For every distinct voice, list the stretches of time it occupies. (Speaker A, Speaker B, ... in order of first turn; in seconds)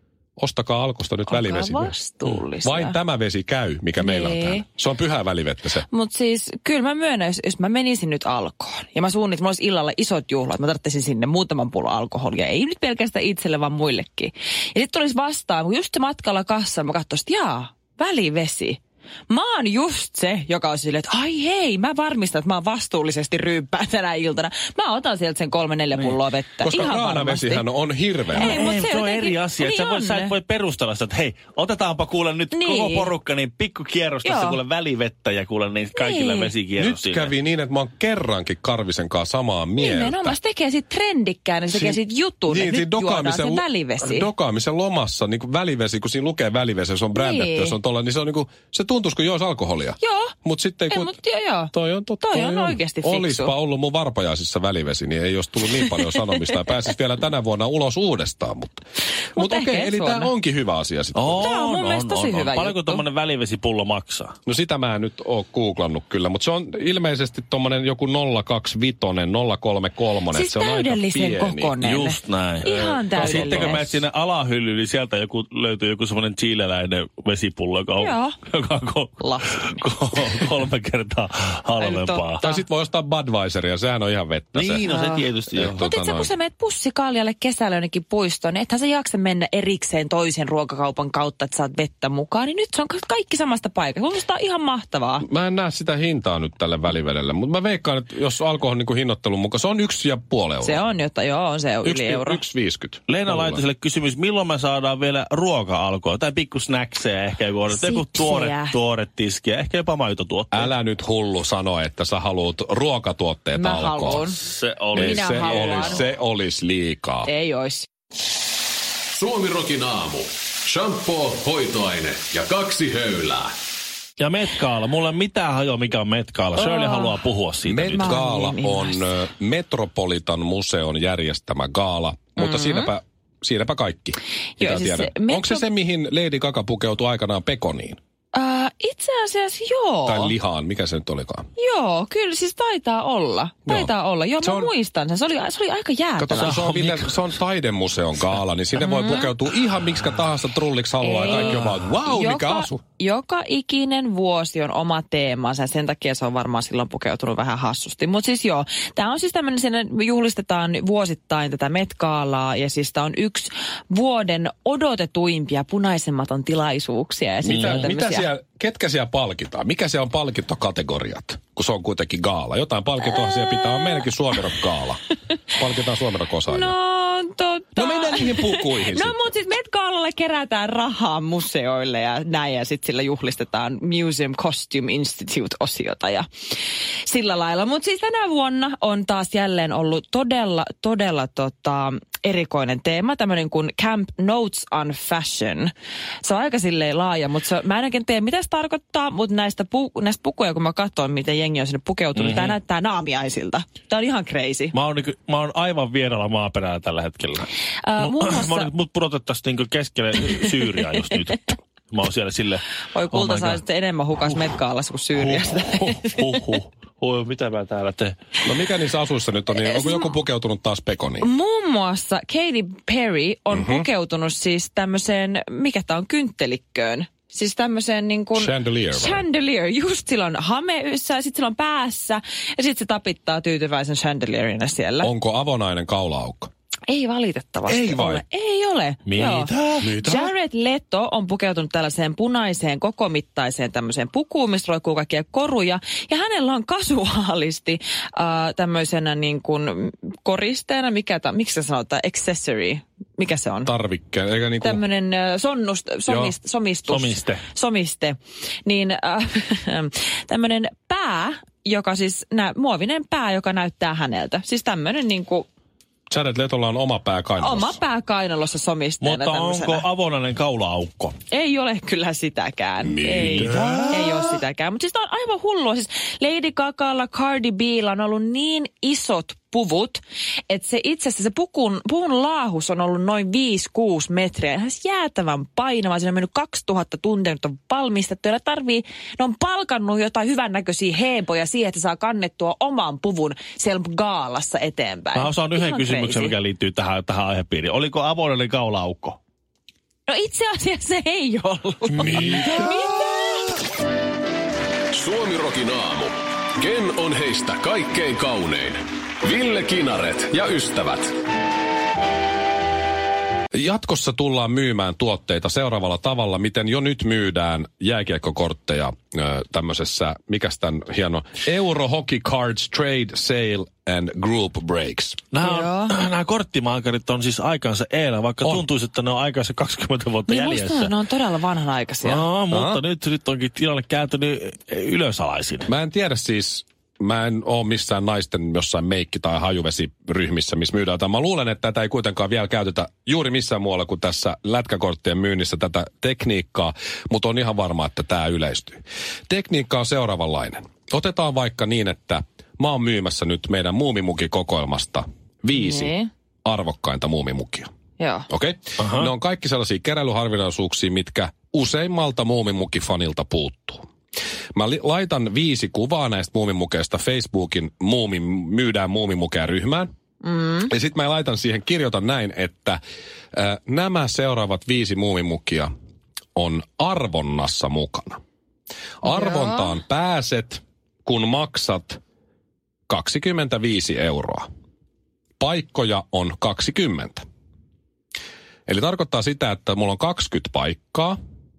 Speaker A: 0.4-1.9, 2.6-5.9, 26.6-28.6, 36.8-40.4, 41.7-51.2, 51.7-61.5, 64.5-71.8, 73.2-73.8, 82.4-84.9, 85.5-86.3, 95.2-100.8, 101.8-103.6, 110.5-114.3, 115.0-117.3, 127.7-138.0, 140.1-141.5, 143.7-144.7, 146.2-152.8, 167.4-176.8, 177.8-179.3, 218.4-221.3, 223.5-223.9, 228.3-229.2, 235.0-236.5, 237.7-238.2, 240.0-240.3, 253.7-254.8, 256.1-256.3, 266.1-267.8, 272.8-273.9, 302.0-302.7, 313.5-325.2, 332.5-332.8, 335.7-355.9, 356.4-357.7, 358.3-363.8, 364.6-369.9, 370.6-372.8, 373.3-375.7, 376.4-378.2, 379.0-382.0, 382.9-384.5, 385.4-387.2, 388.7-391.2
Speaker B: 1.3-3.0, 4.0-4.7, 5.9-27.7, 28.3-30.4, 32.5-33.1, 34.2-34.6, 36.0-36.5, 39.8-44.3, 47.1-47.8, 50.0-50.4, 50.9-53.5, 55.8-56.4, 59.4-60.3, 61.4-63.0, 70.3-74.0, 78.0-78.3, 79.2-79.8, 81.8-82.6, 84.8-95.3, 100.6-102.4, 107.7-108.8, 113.5-114.4, 114.9-116.0, 117.3-117.9, 126.6-127.2, 127.9-129.1, 132.4-132.9, 134.6-135.7, 138.3-140.3, 141.6-146.6, 148.8-149.3, 151.0-168.3, 173.1-174.0, 176.5-186.3, 187.1-195.7, 196.2-204.7, 207.8-208.7, 212.9-216.2, 219.5-220.1, 221.2-235.1, 236.9-253.7, 254.6-265.5, 267.4-269.9, 271.3-296.4, 300.1-303.4, 325.4-326.0, 330.3-332.2, 355.5-356.1, 358.0-358.3, 370.2-370.7, 379.0-379.7
Speaker C: 28.3-37.3, 61.1-64.3, 71.8-82.5, 84.5-85.8, 103.1-110.7, 114.4-116.0, 124.2-128.2, 146.4-147.2, 167.5-167.8, 202.2-202.6, 204.7-207.5, 208.0-213.6, 215.2-218.2, 239.1-240.1, 256.9-257.4, 269.0-271.1, 273.1-274.4, 295.1-299.2, 302.0-302.5, 325.3-330.9, 332.0-335.7, 358.8-359.1
Speaker D: 119.1-123.5, 304.9-311.1